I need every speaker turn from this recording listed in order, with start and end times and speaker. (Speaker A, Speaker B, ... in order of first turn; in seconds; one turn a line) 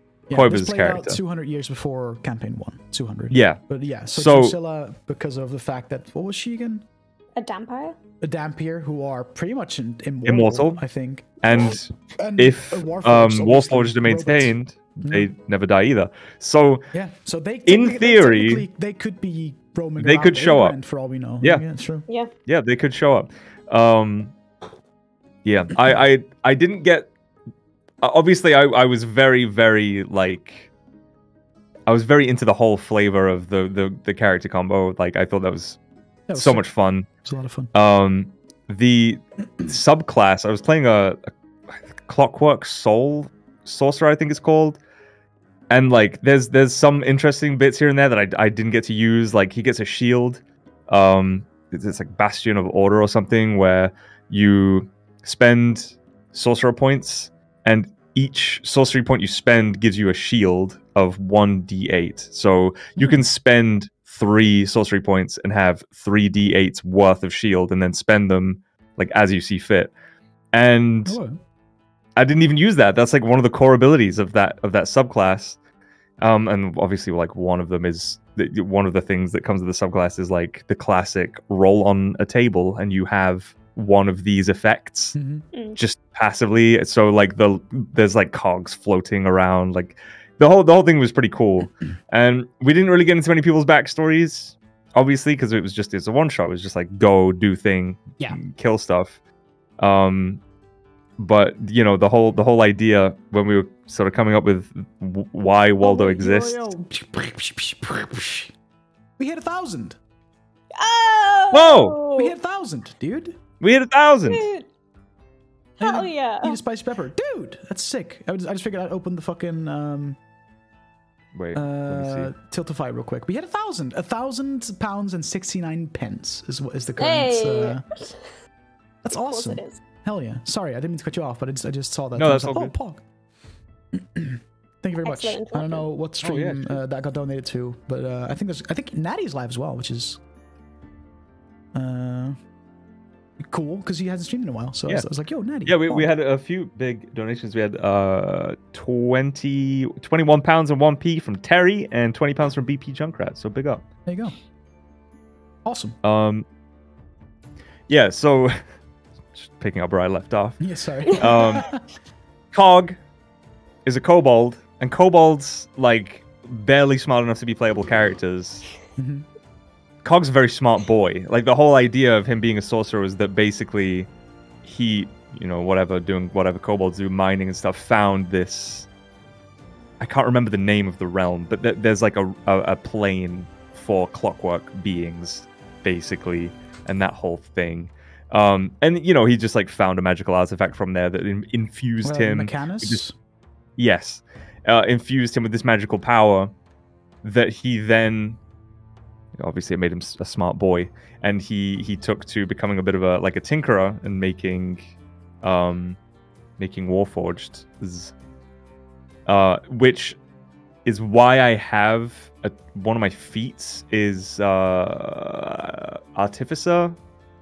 Speaker A: 0.3-6.8
Speaker B: 0.3-1.2
Speaker B: 3.3-3.6
Speaker B: 4.1-4.5
Speaker C: 7.3-8.0
Speaker A: 8.2-15.3
Speaker B: 10.2-10.8
Speaker B: 11.4-16.9
Speaker A: 16.9-22.1
Speaker B: 17.6-18.6
Speaker B: 20.0-20.8
Speaker B: 22.5-24.3
Speaker B: 25.4-27.1
Speaker B: 28.0-30.7
Speaker B: 31.9-35.8
Speaker A: 36.3-37.7
Speaker B: 36.3-37.1
Speaker B: 37.7-44.8
Speaker B: 45.7-69.9
Speaker A: 63.0-63.2
Speaker B: 70.5-71.2
Speaker A: 71.0-71.4
Speaker B: 72.2-75.6
Speaker B: 76.2-85.1
Speaker A: 85.1-85.5
Speaker C: 85.5-85.8
Speaker B: 85.8-99.2
Speaker B: 99.8-100.4
Speaker B: 101.2-106.6
Speaker C: 105.8-106.2
Speaker A: 105.9-108.5
Speaker A: 109.2-110.0
Speaker C: 110.7-112.3
Speaker B: 111.5-112.0
Speaker A: 112.1-113.4
Speaker B: 113.6-114.4
Speaker C: 114.3-114.7
Speaker C: 115.8-116.6
Speaker A: 115.8-120.2
Speaker B: 121.3-122.3
Speaker A: 121.5-127.8
Speaker C: 127.0-128.2
Speaker A: 129.0-133.0
Speaker C: 129.1-129.8
Speaker B: 132.1-132.7
Speaker A: 133.9-140.2
Speaker C: 135.0-135.9
Speaker B: 136.2-136.8
Speaker A: 141.7-142.3
Speaker A: 143.4-146.1
Speaker B: 145.7-153.8
Speaker A: 154.1-154.3
Speaker A: 155.6-156.0
Speaker B: 156.0-156.4
Speaker B: 157.9-158.6
Speaker B: 159.3-160.6
Speaker A: 160.6-161.8
Speaker B: 161.1-161.7
Speaker B: 162.5-163.0
Speaker B: 163.8-168.7
Speaker A: 169.0-169.2
Speaker B: 170.0-174.1
Speaker B: 174.6-178.9
Speaker B: 180.0-193.0
Speaker A: 192.0-193.1
Speaker B: 193.8-196.5
Speaker B: 197.2-198.4
Speaker B: 199.3-206.0
Speaker B: 206.6-208.1
Speaker B: 209.2-210.2
Speaker B: 210.8-217.0